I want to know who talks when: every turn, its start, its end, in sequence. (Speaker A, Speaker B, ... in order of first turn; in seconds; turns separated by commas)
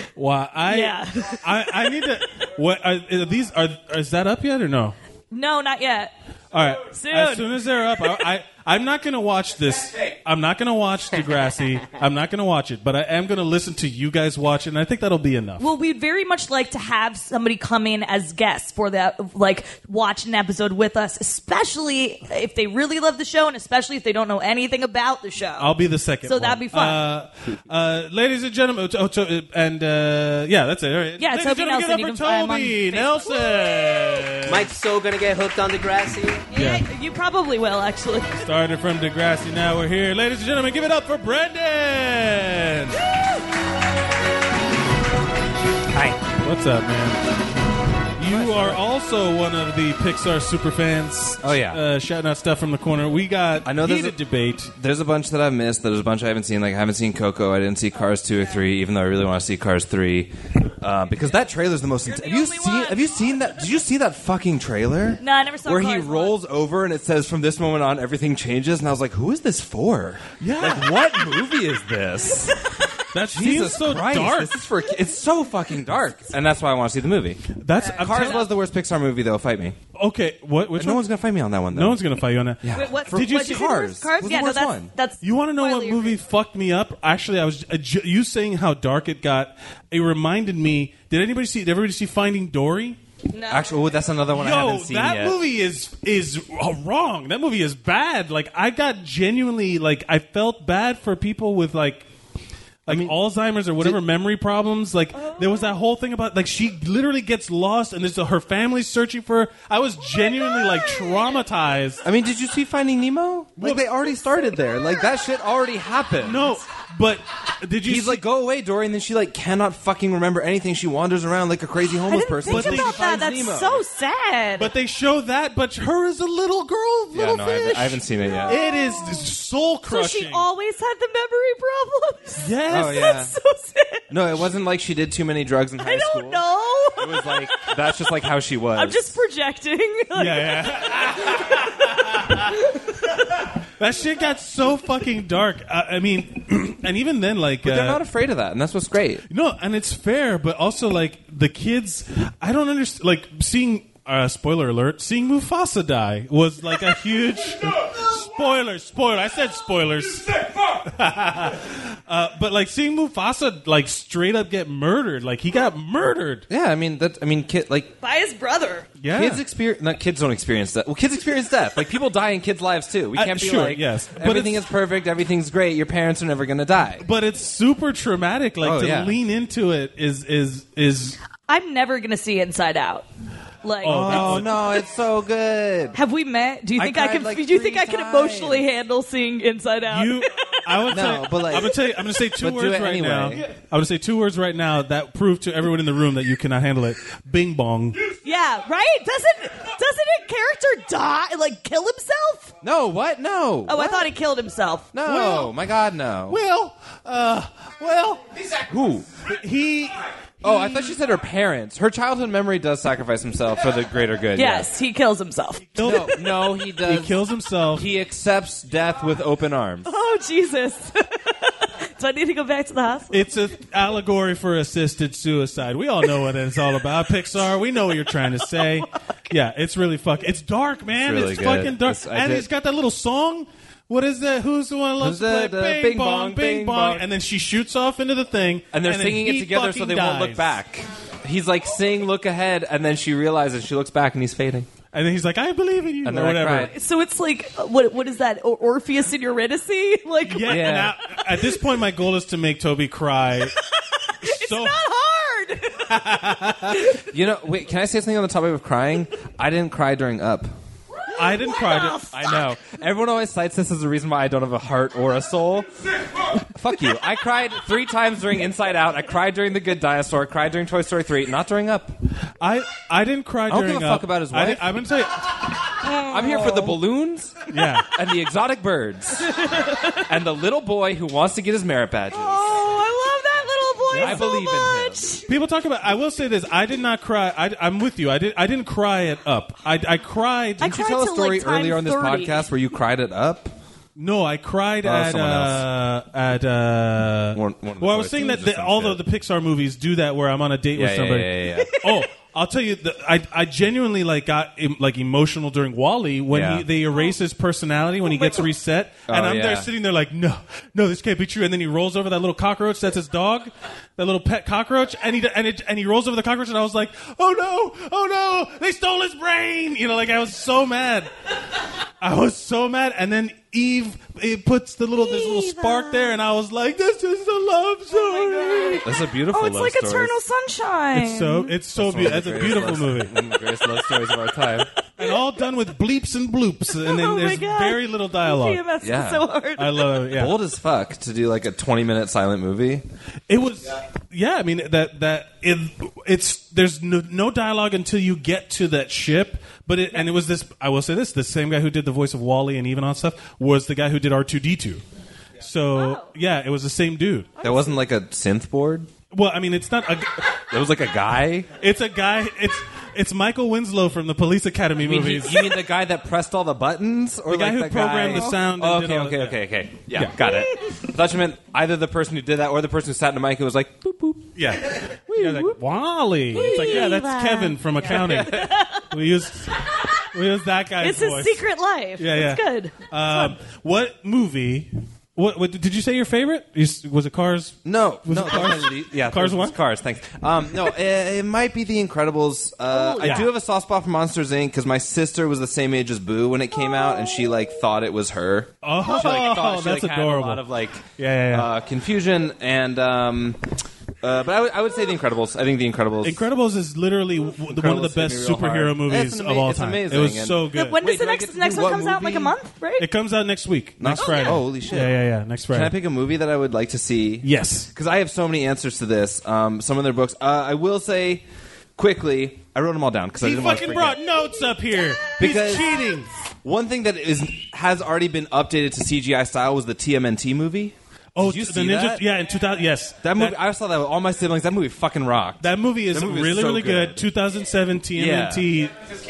Speaker A: 0.2-5.0, Speaker B: 0.7-2.0, Speaker B: 5.3-6.1, Speaker A: 6.5-15.7, Speaker B: 6.8-8.3, Speaker B: 15.6-27.1, Speaker A: 25.6-34.7, Speaker B: 31.2-34.3, Speaker C: 34.5-36.5, Speaker A: 36.5-36.9, Speaker B: 36.5-38.5, Speaker A: 38.4-43.0, Speaker A: 46.3-47.2, Speaker A: 48.2-54.7, Speaker D: 48.3-48.8, Speaker D: 51.4-51.8, Speaker D: 53.6-54.2, Speaker D: 54.8-72.5, Speaker B: 62.0-63.1, Speaker B: 65.2-66.3, Speaker A: 70.4-70.9, Speaker B: 72.5-73.0, Speaker A: 73.1-74.6, Speaker D: 73.3-77.4, Speaker A: 77.6-78.4, Speaker B: 77.8-78.5, Speaker D: 77.9-79.8, Speaker A: 80.0-81.1, Speaker D: 80.8-82.0, Speaker A: 81.7-83.8, Speaker D: 82.6-84.9, Speaker B: 82.8-86.2, Speaker A: 85.2-93.0, Speaker B: 93.3-93.9, Speaker D: 93.5-95.4, Speaker A: 94.3-102.1, Speaker A: 102.9-112.0, Speaker D: 102.9-103.2, Speaker B: 105.2-105.8, Speaker B: 110.1-111.3, Speaker D: 112.0-116.5, Speaker A: 113.6-113.9, Speaker B: 114.2-115.1, Speaker A: 116.2-118.2, Speaker D: 117.9-123.8, Speaker B: 122.1-124.7, Speaker A: 122.5-123.1, Speaker A: 124.6-130.5, Speaker D: 127.1-128.6, Speaker B: 129.9-134.1, Speaker A: 132.4-133.1, Speaker D: 132.7-133.3, Speaker D: 134.1-136.4, Speaker B: 135.8-137.8, Speaker D: 137.0-139.1, Speaker B: 138.8-141.6, Speaker A: 140.1-142.5, Speaker B: 142.6-142.9, Speaker A: 143.8-148.0, Speaker D: 147.6-149.2, Speaker A: 149.3-166.5, Speaker D: 166.5-168.0, Speaker B: 168.0-168.9, Speaker A: 169.0-169.4, Speaker D: 169.1-177.0, Speaker A: 173.1-174.6, Speaker A: 177.0-181.2, Speaker D: 178.6-179.2, Speaker B: 181.5-183.1, Speaker B: 183.6-184.3, Speaker A: 183.8-184.6, Speaker D: 183.8-186.0, Speaker B: 186.0-190.8, Speaker D: 186.8-188.6, Speaker A: 186.8-187.2, Speaker A: 189.9-198.1, Speaker D: 190.9-191.8, Speaker D: 192.4-193.4, Speaker B: 198.2-202.6, Speaker D: 202.6-204.1, Speaker B: 203.7-205.5, Speaker D: 204.9-206.4, Speaker A: 205.1-205.5, Speaker A: 206.3-208.2, Speaker D: 208.6-209.1, Speaker A: 209.2-210.9, Speaker D: 210.4-214.7, Speaker B: 214.4-216.2, Speaker A: 215.8-217.9, Speaker D: 215.8-217.2, Speaker D: 217.7-219.9, Speaker B: 219.8-223.2, Speaker A: 223.1-240.6, Speaker B: 228.3-228.9, Speaker D: 230.9-232.5, Speaker D: 235.0-237.1, Speaker D: 238.7-244.7, Speaker A: 244.9-246.8, Speaker D: 246.1-246.7, Speaker B: 246.6-250.7, Speaker A: 250.3-253.6, Speaker D: 250.5-250.9, Speaker B: 254.2-255.9, Speaker A: 254.2-254.8, Speaker A: 255.9-256.8, Speaker D: 257.1-260.5, Speaker B: 261.1-262.5, Speaker A: 261.2-262.0, Speaker D: 262.1-265.7, Speaker D: 266.6-271.9, Speaker A: 272.4-275.4, Speaker D: 273.5-274.7, Speaker B: 275.8-276.8, Speaker D: 276.1-277.4, Speaker A: 277.5-277.9, Speaker D: 277.9-279.3, Speaker B: 279.2-280.1, Speaker D: 280.1-282.5, Speaker B: 282.1-285.2, Speaker A: 283.9-284.3, Speaker D: 284.0-285.0, Speaker A: 285.3-290.8, Speaker B: 290.6-292.5, Speaker D: 290.6-293.5, Speaker A: 294.0-321.1, Speaker D: 294.8-295.7, Speaker D: 297.4-299.0, Speaker D: 300.8-301.7, Speaker B: 301.7-302.0, Speaker D: 306.3-306.7, Speaker B: 308.0-308.4, Speaker D: 309.1-309.7, Speaker A: 322.0-328.8, Speaker B: 325.0-326.2, Speaker B: 327.9-331.6, Speaker D: 328.8-330.1, Speaker A: 330.9-333.1, Speaker D: 331.8-334.7, Speaker A: 335.0-338.6, Speaker B: 336.8-340.1, Speaker D: 338.8-339.3, Speaker A: 339.6-340.4, Speaker D: 340.1-342.8, Speaker A: 343.3-354.8, Speaker A: 355.4-357.3, Speaker B: 355.8-356.1, Speaker D: 357.4-358.9, Speaker B: 357.4-357.7, Speaker A: 359.1-360.3, Speaker D: 360.5-361.5, Speaker A: 361.6-365.6, Speaker D: 364.8-374.3, Speaker A: 367.3-370.2, Speaker B: 370.2-370.8, Speaker A: 374.4-381.4, Speaker B: 376.3-378.9, Speaker D: 377.9-378.5, Speaker B: 380.8-383.4, Speaker A: 382.0-389.6, Speaker D: 387.6-403.4, Speaker B: 392.7-393.3, Speaker A: 393.0-393.3, Speaker A: 398.6-400.5, Speaker B: 398.8-399.2, Speaker A: 401.0-401.5, Speaker D: 404.0-406.3, Speaker A: 406.0-410.8, Speaker D: 407.4-412.4, Speaker B: 410.5-412.9, Speaker A: 412.8-415.8, Speaker D: 413.8-415.0, Speaker B: 414.0-414.4, Speaker D: 415.5-421.2, Speaker A: 417.2-417.7, Speaker D: 421.8-424.0, Speaker A: 423.2-426.1, Speaker D: 425.2-425.7, Speaker D: 426.4-432.1, Speaker A: 431.1-433.4, Speaker D: 433.0-437.1, Speaker A: 435.4-438.7, Speaker D: 437.9-438.5